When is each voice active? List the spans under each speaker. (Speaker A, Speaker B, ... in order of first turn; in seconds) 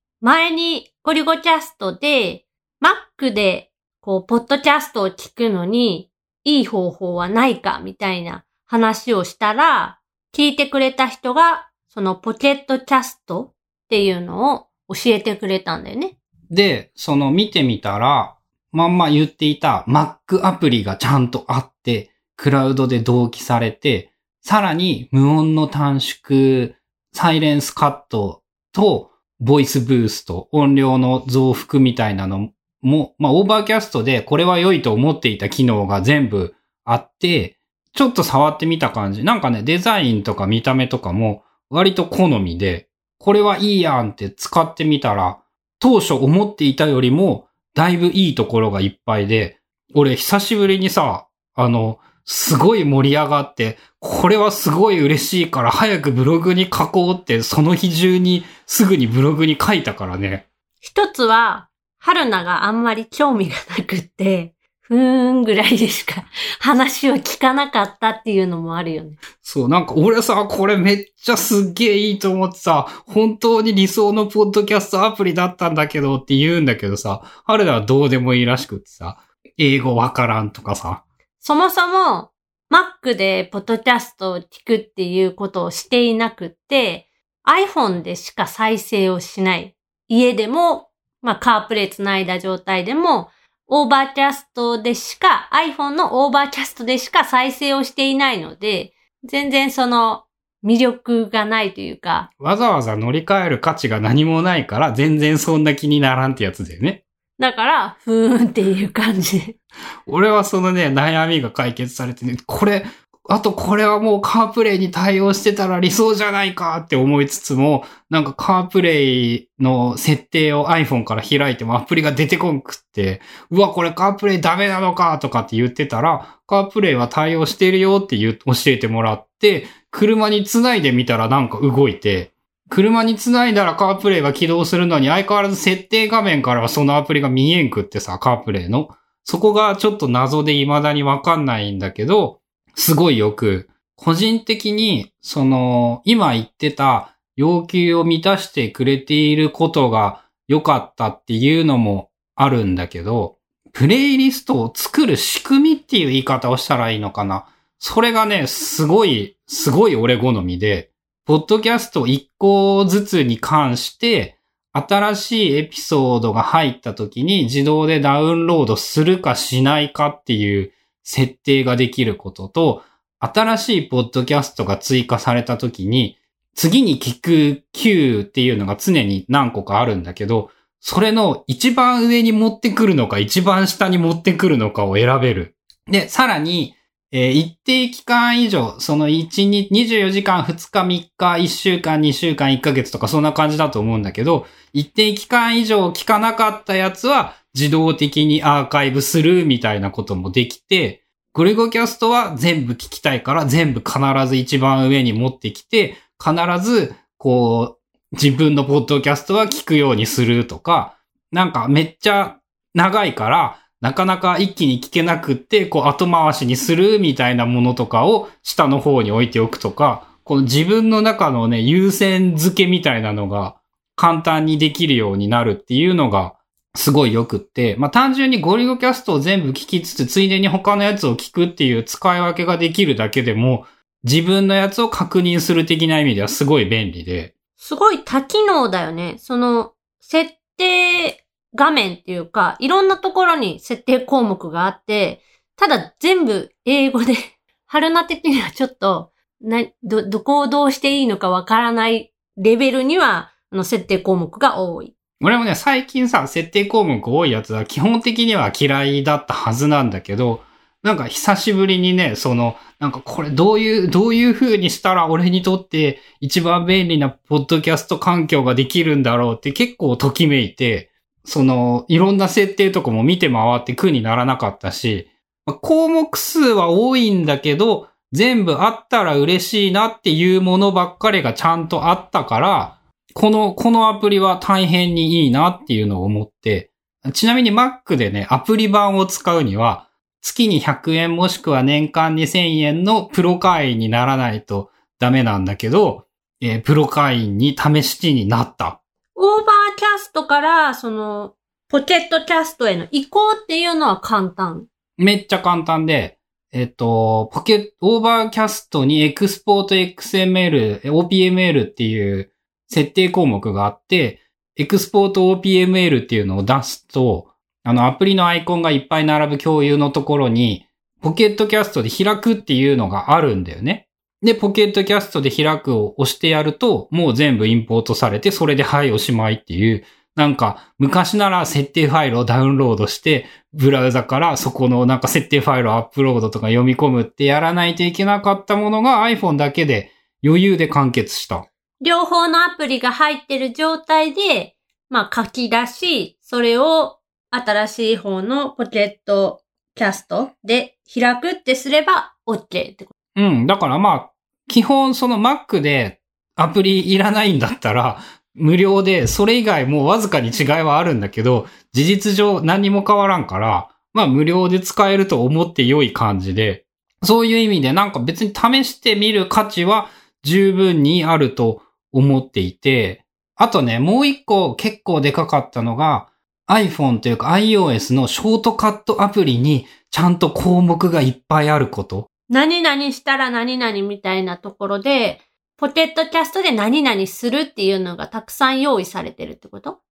Speaker A: 0.2-16.1, 60.8-69.2, 81.4-102.3, 107.4-109.5, 237.6-254.9, 299.1-304.7, 341.8-352.9, 382.3-389.8
Speaker B: 16.5-60.5, 69.4-81.0, 102.4-107.0, 110.1-237.3, 255.2-298.8, 305.0-341.4, 353.1-382.1